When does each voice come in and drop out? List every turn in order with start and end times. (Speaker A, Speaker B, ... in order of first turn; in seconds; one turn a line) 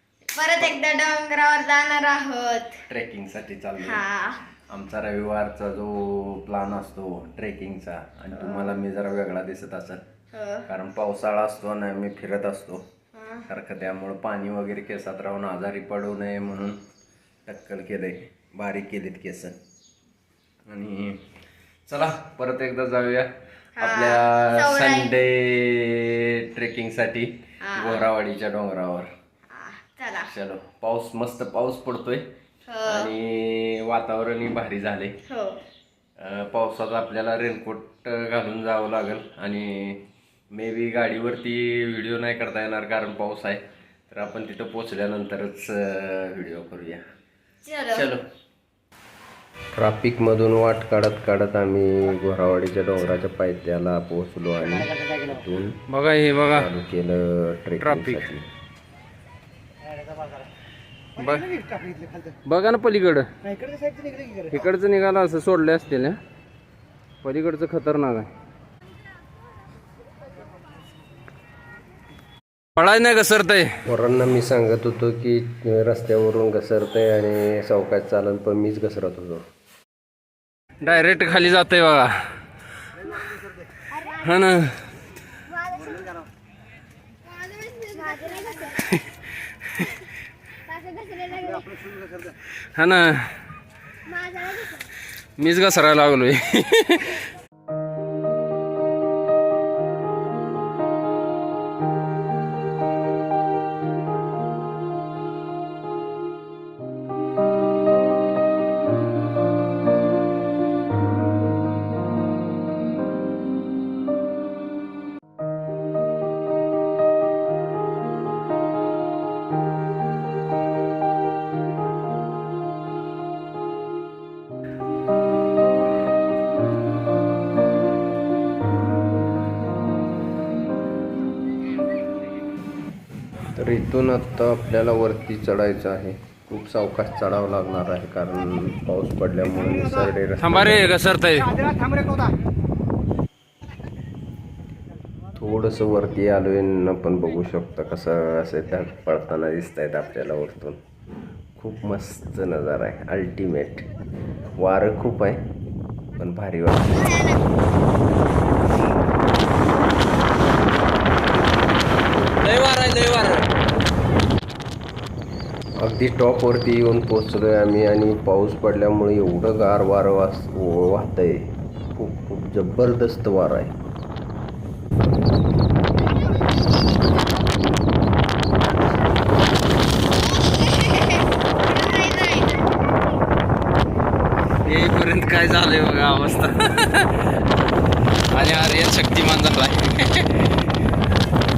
Speaker A: 0.3-2.8
Speaker B: 2.9-4.0
Speaker A: 3.8-4.4
Speaker B: 4.7-10.0
Speaker A: 8.3-8.8
Speaker A: 10.3-10.7
Speaker B: 10.7-12.8
Speaker A: 13.1-13.5
Speaker B: 13.5-16.8
Speaker B: 17.4-19.5
Speaker B: 20.7-21.2
Speaker B: 21.9-23.3
Speaker A: 23.7-25.2
Speaker B: 23.8-29.1
Speaker A: 27.6-28.1
Speaker A: 29.5-30.3
Speaker B: 30.3-32.2
Speaker A: 32.7-33.1
Speaker B: 32.9-35.2
Speaker A: 35.2-35.6
Speaker B: 36.2-47.0
Speaker A: 47.6-48.1
Speaker B: 47.9-48.2
Speaker B: 49.8-55.8
Speaker C: 55.9-56.7
Speaker B: 56.5-58.5
Speaker C: 57.8-58.3
Speaker C: 61.2-61.5
Speaker C: 62.5-63.3
Speaker C: 64.5-66.2
Speaker C: 67.2-68.3
Speaker C: 72.8-73.8
Speaker B: 73.8-79.5
Speaker C: 80.8-82.3
Speaker C: 84.0-84.8
Speaker A: 87.3-88.8
Speaker C: 88.8-89.1
Speaker C: 89.7-89.9
Speaker A: 90.7-91.7
Speaker C: 92.7-93.3
Speaker A: 94.2-94.5
Speaker C: 95.4-97.2
Speaker B: 133.6-140.9
Speaker C: 140.4-141.6
Speaker B: 145.3-150.8
Speaker B: 151.6-153.9
Speaker B: 154.6-155.4
Speaker B: 156.2-157.2
Speaker A: 156.9-157.4
Speaker C: 162.4-163.5
Speaker B: 165.8-173.7
Speaker A: 180.2-182.6
Speaker C: 184.6-187.2
Speaker C: 188.3-190.5